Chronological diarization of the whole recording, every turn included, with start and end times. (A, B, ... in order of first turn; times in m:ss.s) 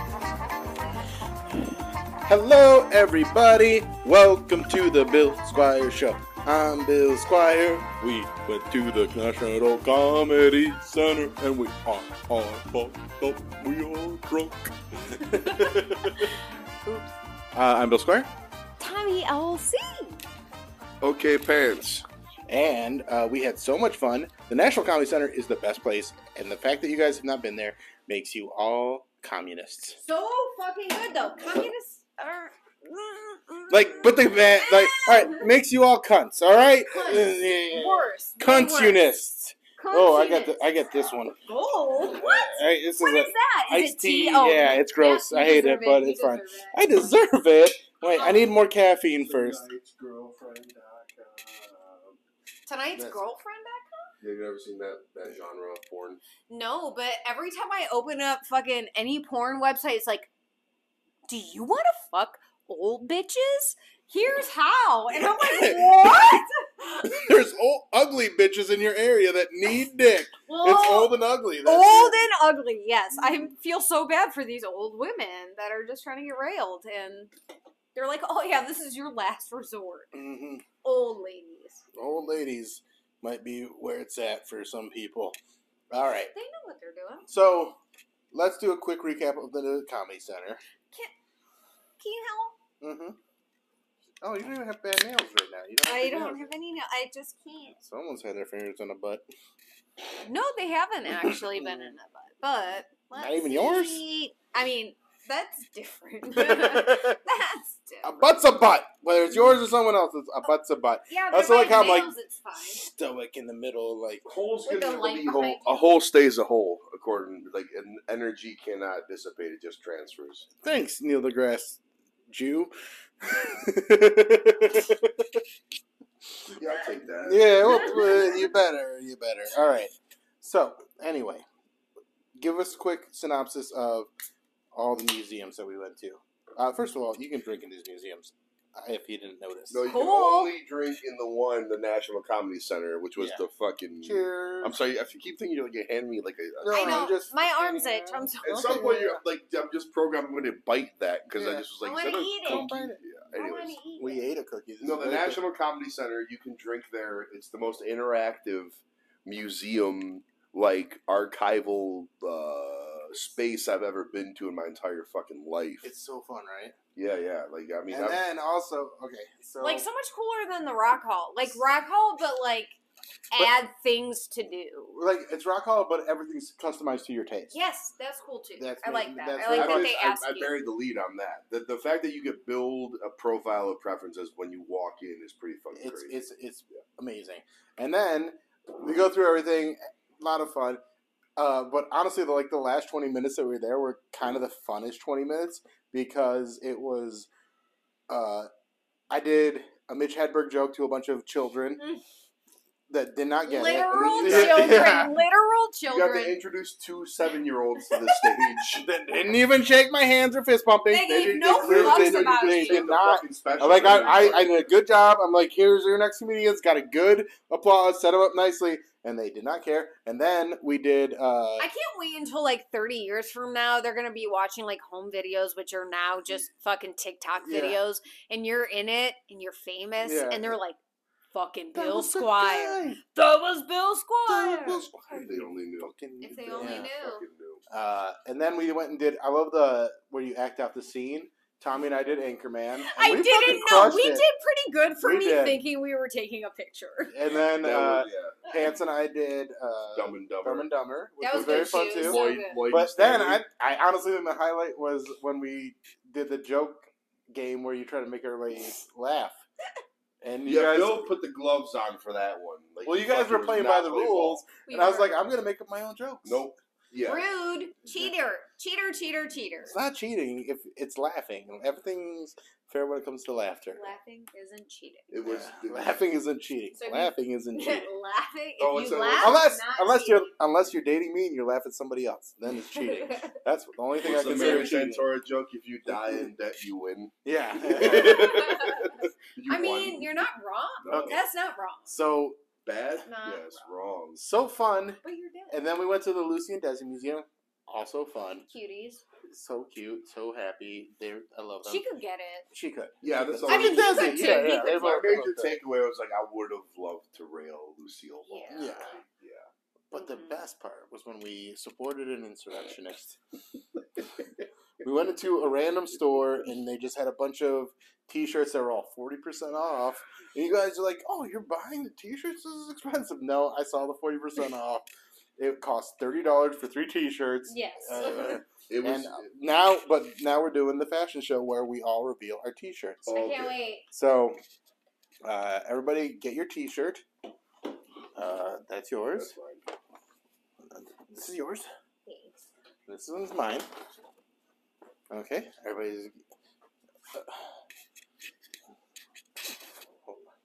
0:02.2-0:16.3 A
0:15.3-0:17.1 B
0:17.5-0:18.3 A
0:18.8-0:20.2 B
0:21.0-0:22.0 C
0:22.5-0:30.0 A
0:30.0-0:35.5 B
0:33.7-0:41.4 A
0:36.9-0:39.1 B
0:39.8-0:46.9 B
0:42.1-0:49.6 A
0:48.0-0:48.5 B
0:49.1-0:52.2 C
0:52.6-0:54.1 B
0:52.9-0:53.2 A
0:54.2-0:56.2 C
0:56.5-1:00.3 B
1:01.3-1:07.3 B
1:05.1-1:06.4 A
1:07.1-1:12.2 A
1:10.5-1:17.3 B
1:13.1-1:13.5 A
1:17.9-1:20.1 B
1:20.1-1:20.6 A
1:20.8-1:21.8 B
1:22.0-1:25.4 A
1:25.9-1:26.3 A
1:26.3-1:27.3 B
1:27.3-1:27.8 A
1:28.3-1:30.6 A
1:32.0-1:32.5 B
1:32.8-1:33.2 A
1:34.2-1:36.5 A
1:35.8-1:37.8 B
1:37.8-1:39.2 A
1:40.2-1:48.4 B
1:41.6-1:41.9 A
1:43.2-1:44.0 A
1:46.3-1:47.1 A
1:48.0-1:54.2 A
1:51.1-1:52.8 B
1:54.2-2:00.5 C
1:54.6-1:55.9 B
2:00.6-2:05.4 A
2:06.6-2:08.0 C
2:07.2-2:11.4 A
2:07.6-2:08.5 B
2:12.4-2:14.1 A
2:14.7-2:19.8 A
2:19.7-2:27.1 C
2:19.8-2:20.5 B
2:23.2-2:23.5 A
2:24.0-2:24.8 A
2:26.6-2:28.3 A
2:26.7-2:29.2 B
2:28.4-2:33.8 C
2:31.3-2:33.0 A
2:31.8-2:32.7 B
2:33.3-2:34.3 B
2:34.0-2:35.4 A
2:34.8-2:45.8 C
2:45.8-2:46.8 A
2:47.0-2:48.2 C
2:47.9-2:49.8 A
2:49.6-2:52.8 B
2:53.3-2:55.0 B
2:54.9-2:57.6 A
2:57.5-3:00.6 B
2:58.6-2:59.9 A
2:59.4-3:06.2 C
3:05.7-3:10.8 A
3:11.4-3:17.3 A
3:18.1-3:18.5 A
3:19.1-3:21.8 A
3:22.9-3:25.1 A
3:23.4-3:26.4 B
3:23.9-3:24.8 C
3:25.9-3:29.3 C
3:28.8-3:41.7 A
3:30.9-3:32.9 B
3:31.4-3:34.7 C
3:33.7-3:34.4 B
3:41.6-3:50.8 B
3:47.4-3:47.8 A
3:50.0-3:50.6 A
3:51.3-3:54.9 B
3:51.7-3:53.0 A
3:54.3-3:56.9 A
3:55.1-3:57.6 C
3:56.2-3:57.2 B
3:57.7-4:04.2 A
4:02.8-4:07.1 B
4:05.0-4:05.6 A
4:07.1-4:19.4 A
4:07.4-4:08.4 C
4:09.9-4:10.7 C
4:11.2-4:12.7 B
4:11.3-4:13.4 C
4:20.2-4:21.1 A
4:20.4-4:24.4 C
4:22.8-4:26.4 A
4:24.6-4:25.2 B
4:26.2-4:27.3 C
4:27.0-4:29.8 B
4:29.6-4:33.8 A
4:33.7-4:35.1 B
4:35.1-4:36.1 C
4:35.2-4:37.9 A
4:36.8-4:40.3 B
4:38.6-4:39.4 C
4:39.2-4:45.0 A
4:42.9-4:43.3 B
4:44.0-4:50.2 C
4:47.2-4:48.9 A
4:47.8-4:48.8 B
4:49.4-4:52.0 B
4:50.8-4:51.2 C
4:50.9-4:51.2 A
4:51.8-4:52.4 A
4:52.6-4:54.2 C
4:53.0-4:53.6 B
4:54.2-4:58.4 A
4:55.0-4:55.5 B
4:58.4-4:59.0 B
4:59.3-5:01.8 A
5:01.6-5:02.5 B
5:02.5-5:05.5 A
5:03.0-5:09.5 C
5:03.5-5:04.8 B
5:08.2-5:08.8 B
5:08.5-5:08.9 A
5:09.9-5:13.2 A
5:09.9-5:10.4 B
5:14.8-5:33.0 A
5:27.4-5:28.4 B
5:28.0-5:29.2 C
5:33.0-5:33.6 C
5:33.1-5:33.8 B
5:33.9-5:34.4 A
5:35.2-5:37.0 A
5:38.2-5:39.3 A
5:39.1-5:39.6 C
5:40.7-5:41.7 A
5:42.0-5:42.4 B
5:42.9-5:43.7 A
5:45.1-5:46.2 A